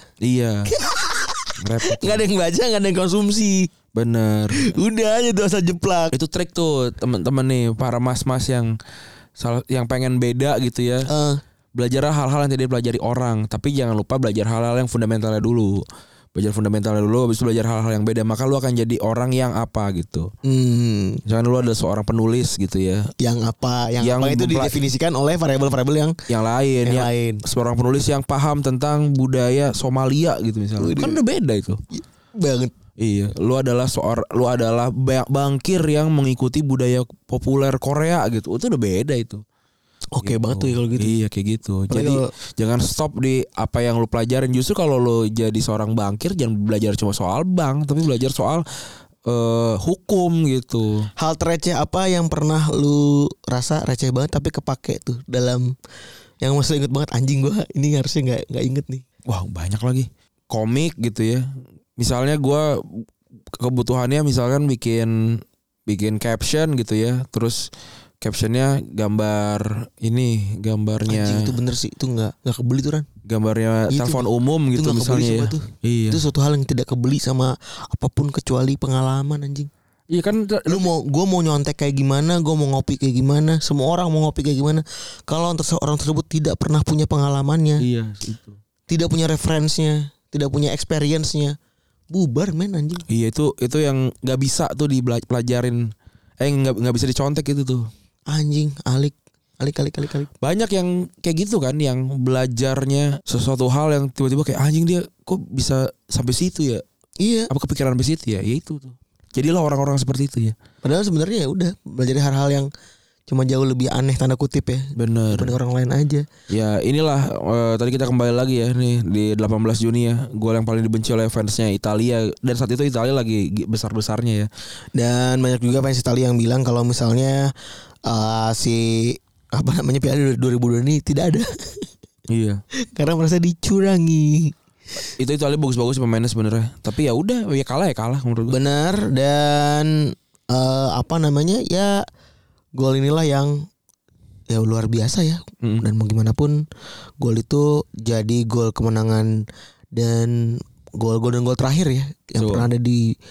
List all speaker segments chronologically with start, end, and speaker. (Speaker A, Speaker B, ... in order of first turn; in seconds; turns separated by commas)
Speaker A: 0.2-0.7, Speaker B: 0.7-3.7, Speaker A: 1.6-2.2, Speaker A: 3.9-4.8, Speaker B: 4.5-6.1, Speaker A: 6.1-8.7, Speaker A: 9.4-11.1, Speaker B: 11.1-11.4, Speaker A: 11.7-20.3, Speaker B: 20.4-21.2, Speaker A: 21.2-23.1, Speaker B: 23.2-26.1, Speaker A: 24.0-24.8, Speaker A: 26.3-31.8, Speaker B: 26.8-27.4, Speaker B: 30.8-31.2, Speaker B: 31.9-32.7, Speaker A: 33.0-39.4, Speaker B: 40.1-41.1, Speaker A: 40.2-48.6, Speaker B: 41.9-42.3, Speaker A: 49.2-51.1, Speaker B: 51.2-55.7, Speaker B: 56.4-59.0, Speaker A: 59.2-67.7, Speaker A: 68.2-71.5, Speaker B: 71.1-73.0, Speaker A: 73.2-76.2, Speaker B: 73.9-79.7, Speaker A: 80.1-80.9, Speaker B: 80.7-87.8, Speaker A: 87.8-88.5, Speaker B: 88.9-91.5, Speaker B: 92.1-93.0, Speaker A: 93.1-97.9, Speaker B: 98.3-100.3, Speaker A: 100.4-106.8, Speaker B: 107.2-107.5, Speaker A: 107.5-110.5, Speaker B: 110.8-112.7, Speaker B: 113.3-116.2, Speaker A: 115.0-115.5, Speaker A: 116.5-124.5, Speaker B: 125.0-127.5, Speaker B: 128.1-131.9, Speaker A: 132.3-132.6, Speaker B: 132.9-134.5, Speaker A: 135.2-138.6, Speaker B: 138.5-142.0, Speaker B: 142.8-143.7, Speaker B: 144.5-146.6, Speaker B: 147.2-149.4, Speaker B: 149.9-153.1, Speaker A: 152.4-152.7